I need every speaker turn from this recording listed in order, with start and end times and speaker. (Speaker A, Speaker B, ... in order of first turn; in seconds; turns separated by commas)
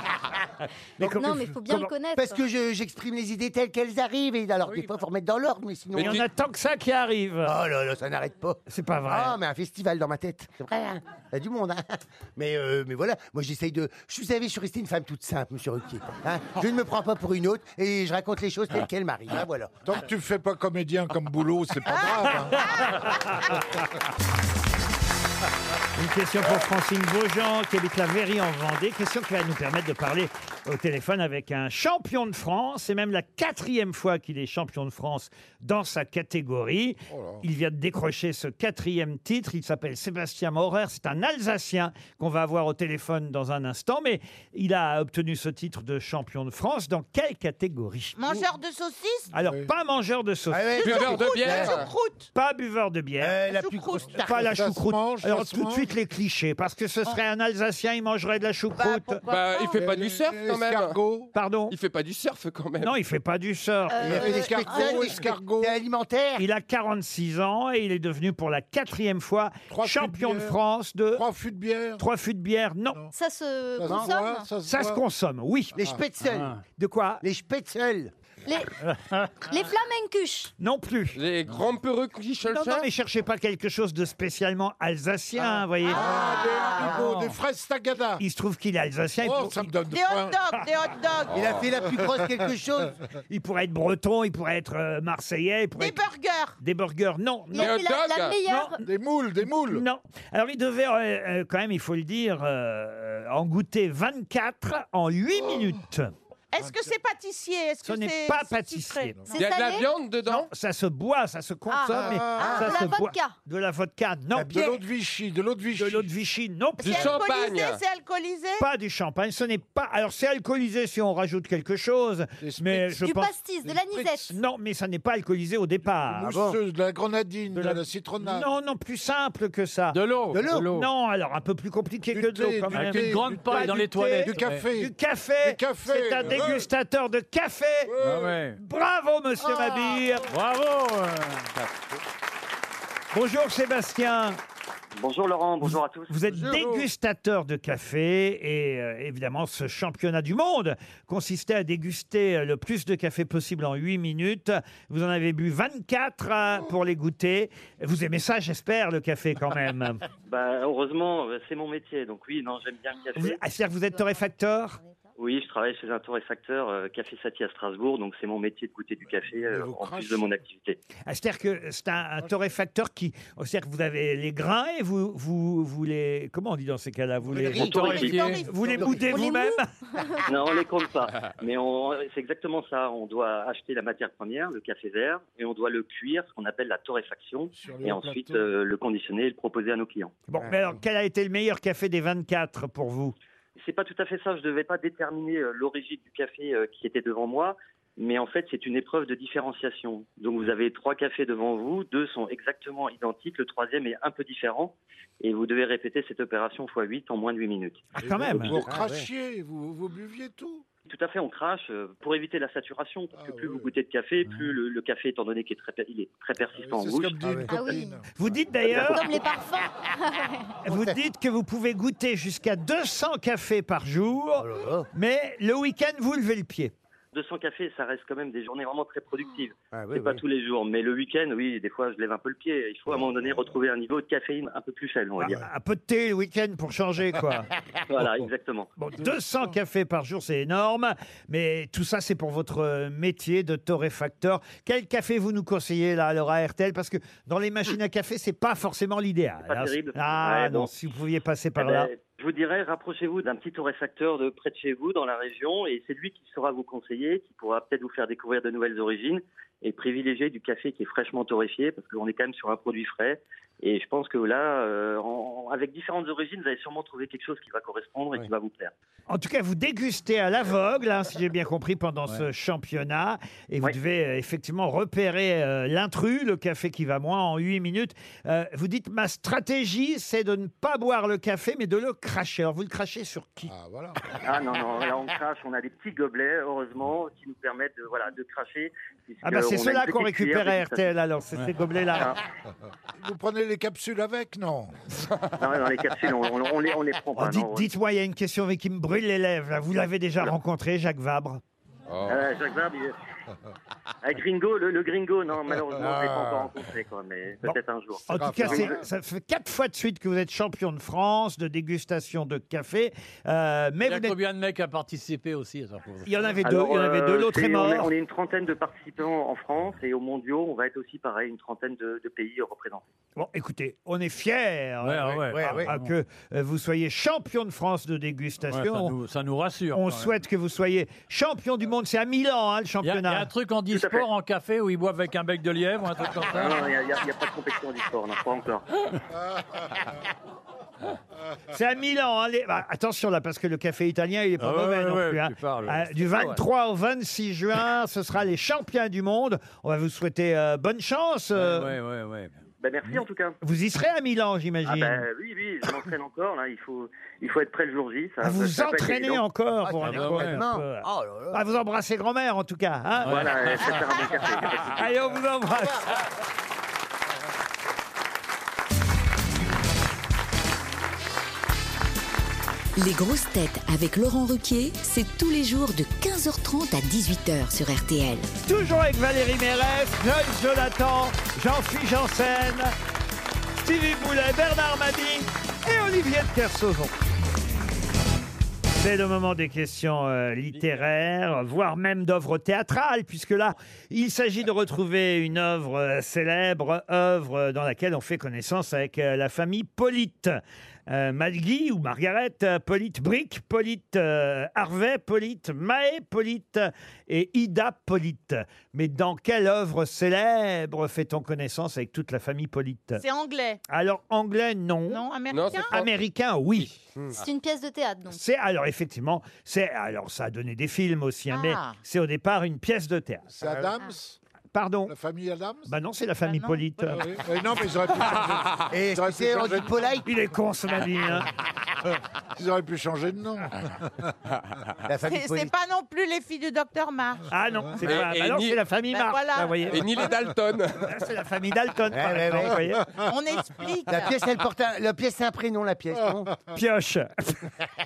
Speaker A: 1.0-1.9, Speaker B: 1.0-2.4, Speaker C: 2.1-6.2, Speaker D: 5.9-6.2, Speaker A: 6.0-7.5, Speaker C: 7.4-19.8, Speaker A: 8.7-9.3, Speaker E: 19.8-23.0, Speaker F: 21.9-22.8, Speaker A: 22.6-23.6, Speaker A: 25.9-48.4, Speaker E: 37.1-37.4, Speaker F: 48.1-49.3, Speaker A: 49.3-51.0, Speaker E: 49.4-49.7, Speaker C: 50.5-51.9, Speaker F: 50.8-52.3, Speaker D: 50.8-51.9, Speaker A: 52.3-53.4, Speaker C: 53.2-54.5, Speaker F: 53.4-54.1, Speaker A: 54.1-59.2, Speaker E: 54.2-55.9, Speaker F: 58.8-59.8, Speaker D: 59.3-61.0, Speaker E: 59.7-61.3, Speaker A: 61.3-61.7, Speaker D: 61.7-62.9, Speaker A: 62.8-64.2, Speaker B: 63.9-65.2, Speaker C: 64.0-66.5, Speaker E: 64.0-65.8, Speaker A: 66.4-71.2, Speaker E: 69.7-70.5, Speaker E: 71.1-72.0, Speaker A: 72.0-73.0, Speaker B: 73.1-74.5, Speaker E: 73.8-75.0, Speaker C: 73.8-74.1, Speaker A: 74.7-75.8, Speaker C: 75.8-76.5, Speaker G: 76.2-76.6, Speaker A: 76.8-77.2, Speaker C: 77.2-78.1, Speaker B: 78.5-78.8, Speaker G: 78.8-79.3, Speaker B: 79.4-80.5, Speaker A: 80.6-81.2, Speaker D: 81.1-82.9, Speaker A: 82.5-86.2, Speaker E: 85.9-88.2, Speaker F: 85.9-87.0, Speaker G: 87.0-87.3, Speaker A: 88.2-89.7, Speaker E: 89.2-90.4, Speaker F: 89.9-91.3, Speaker C: 91.3-93.0, Speaker D: 91.3-91.6, Speaker A: 93.3-96.0, Speaker F: 95.8-96.6, Speaker A: 96.6-97.8, Speaker B: 97.5-98.9, Speaker D: 97.6-98.4, Speaker A: 98.5-98.8, Speaker E: 98.8-99.8, Speaker A: 99.7-106.1, Speaker F: 106.5-109.2, Speaker E: 106.6-106.9, Speaker A: 107.8-109.2, Speaker B: 109.3-109.9, Speaker D: 109.3-110.5, Speaker A: 110.3-114.5, Speaker B: 111.7-113.4, Speaker E: 111.9-113.0, Speaker C: 114.3-114.8, Speaker E: 114.5-116.1, Speaker A: 115.8-117.2, Speaker D: 116.8-117.8, Speaker F: 116.8-118.7, Speaker A: 118.6-123.3, Speaker E: 122.4-123.1, Speaker B: 123.0-124.4, Speaker E: 123.6-124.2, Speaker A: 124.2-126.4, Speaker C: 126.2-126.6, Speaker E: 126.3-128.5, Speaker A: 127.5-137.9, Speaker G: 129.9-130.9, Speaker C: 130.3-130.7, Speaker E: 132.1-134.9, Speaker G: 132.7-134.7, Speaker E: 135.4-136.7, Speaker E: 137.9-138.4, Speaker G: 138.0-138.6, Speaker A: 138.6-140.3, Speaker G: 140.3-141.5, Speaker A: 143.1-144.4, Speaker H: 144.9-146.1, Speaker A: 145.6-160.0, Speaker C: 146.3-146.9, Speaker H: 160.3-163.4, Speaker A: 163.2-164.8, Speaker H: 165.2-170.8, Speaker E: 169.4-170.3, Speaker A: 171.0-179.7, Speaker E: 177.3-177.6, Speaker C: 177.4-178.1, Speaker G: 177.4-178.5, Speaker F: 177.7-178.9, Speaker C: 178.7-179.1, Speaker B: 179.0-180.2, Speaker H: 180.2-190.1, Speaker E: 187.5-188.5, Speaker A: 190.3-193.1, Speaker C: 190.4-190.7, Speaker H: 193.6-207.9, Speaker A: 207.9-208.6, Speaker E: 208.0-210.6, Speaker C: 208.6-209.1, Speaker H: 210.9-217.2, Speaker E: 213.1-213.7, Speaker E: 216.6-218.1, Speaker C: 217.2-217.5, Speaker B: 217.5-218.0, Speaker A: 218.2-219.2, Speaker B: 218.7-220.6, Speaker A: 220.6-226.7, Speaker C: 220.7-221.0, Speaker C: 224.4-224.9, Speaker H: 227.1-235.4, Speaker C: 229.7-230.2, Speaker A: 235.2-237.5, Speaker H: 237.9-238.7, Speaker A: 238.8-251.9, Speaker H: 249.5-250.7, Speaker H: 251.6-268.7, Speaker A: 269.1-283.5, Speaker E: 283.5-284.2, Speaker H: 284.2-290.9, Speaker A: 289.2-292.2, Speaker E: 293.0-294.7, Speaker H: 295.4-297.7, Speaker A: 297.1-301.4, Speaker D: 301.9-302.2, Speaker H: 302.1-302.9, Speaker H: 304.0-308.7, Speaker C: 305.8-306.5, Speaker A: 308.1-314.1, Speaker E: 308.1-308.8, Speaker G: 313.8-316.3, Speaker A: 316.1-317.9, Speaker H: 316.4-322.8, Speaker A: 323.2-328.9, Speaker G: 324.8-325.9, Speaker C: 325.3-325.7, Speaker G: 328.5-330.1, Speaker A: 329.7-333.3, Speaker G: 332.8-336.7, Speaker H: 333.7-334.0, Speaker H: 336.3-338.6, Speaker A: 341.5-351.7, Speaker G: 344.4-346.4, Speaker G: 351.3-352.4, Speaker H: 352.6-353.4, Speaker A: 353.4-355.0, Speaker H: 354.6-359.2, Speaker A: 358.2-363.3, Speaker C: 359.6-361.4, Speaker G: 359.8-360.4, Speaker G: 363.0-363.8, Speaker H: 363.1-364.9, Speaker A: 364.7-365.9, Speaker I: 372.8-378.3, Speaker A: 378.4-382.7, Speaker A: 383.6-386.9, Speaker A: 388.8-413.0, Speaker F: 413.0-413.6, Speaker A: 413.6-415.0, Speaker F: 414.9-415.8, Speaker D: 415.3-415.9, Speaker A: 415.7-416.8, Speaker D: 416.9-417.2, Speaker B: 417.1-418.2, Speaker A: 418.1-423.3, Speaker F: 421.3-421.8, Speaker E: 423.3-424.2, Speaker C: 423.4-423.7, Speaker A: 424.5-424.9, Speaker E: 424.9-425.7, Speaker A: 425.7-427.1, Speaker F: 426.2-426.6, Speaker E: 426.9-429.7, Speaker C: 428.7-430.1, Speaker A: 430.0-431.3, Speaker E: 432.4-434.1, Speaker C: 434.9-435.5, Speaker F: 435.0-437.9, Speaker A: 437.3-440.0, Speaker D: 437.8-438.6, Speaker F: 438.9-439.6, Speaker D: 439.7-441.0, Speaker A: 440.9-442.9, Speaker C: 441.9-442.6, Speaker F: 443.0-444.2, Speaker C: 443.9-446.3, Speaker A: 446.5-447.4